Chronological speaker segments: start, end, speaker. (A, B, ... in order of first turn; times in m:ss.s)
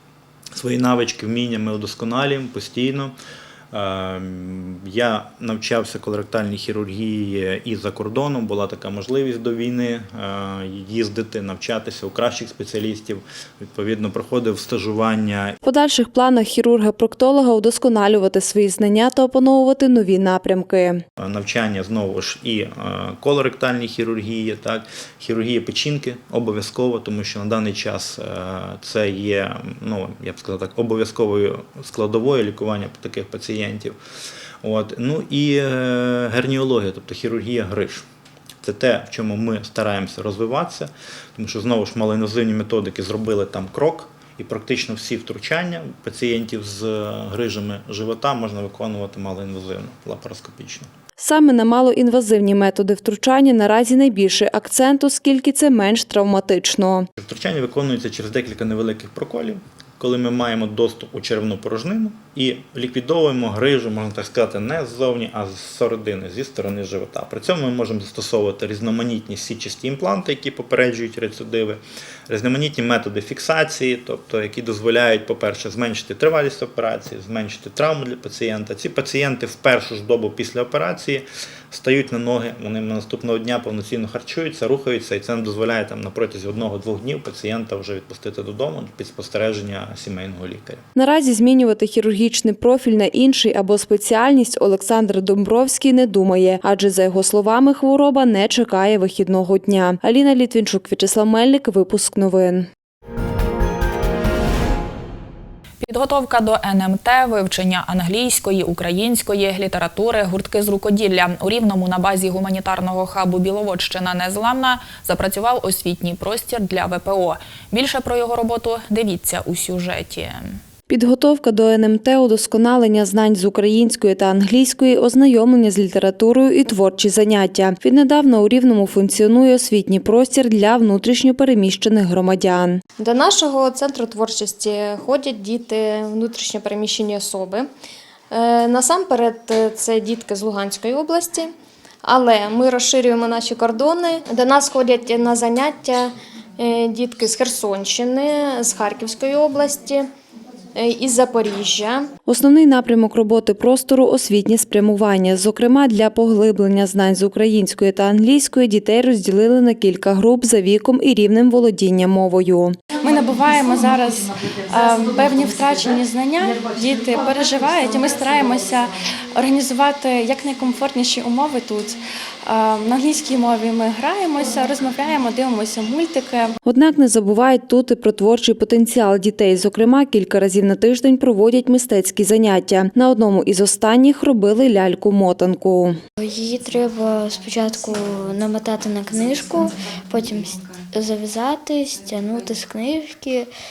0:00.5-0:03.1 A
0:03.7-0:15.6 A
0:15.6-0:21.0 B
0:21.2-0:34.0 A
0:34.6-0:38.0 A
0:38.6-0:50.9 A
0:51.2-0:57.1 B
0:57.2-1:30.8 A
1:31.0-1:42.7 B
1:45.8-2:00.6 C
2:00.9-2:12.8 B
2:13.0-2:17.7 D
2:18.3-2:21.5 D
2:22.0-2:30.1 D
2:30.8-2:32.1 D
2:32.3-2:42.8 B
2:43.0-2:56.6 E
2:56.7-3:06.0 B
3:06.2-3:13.5 F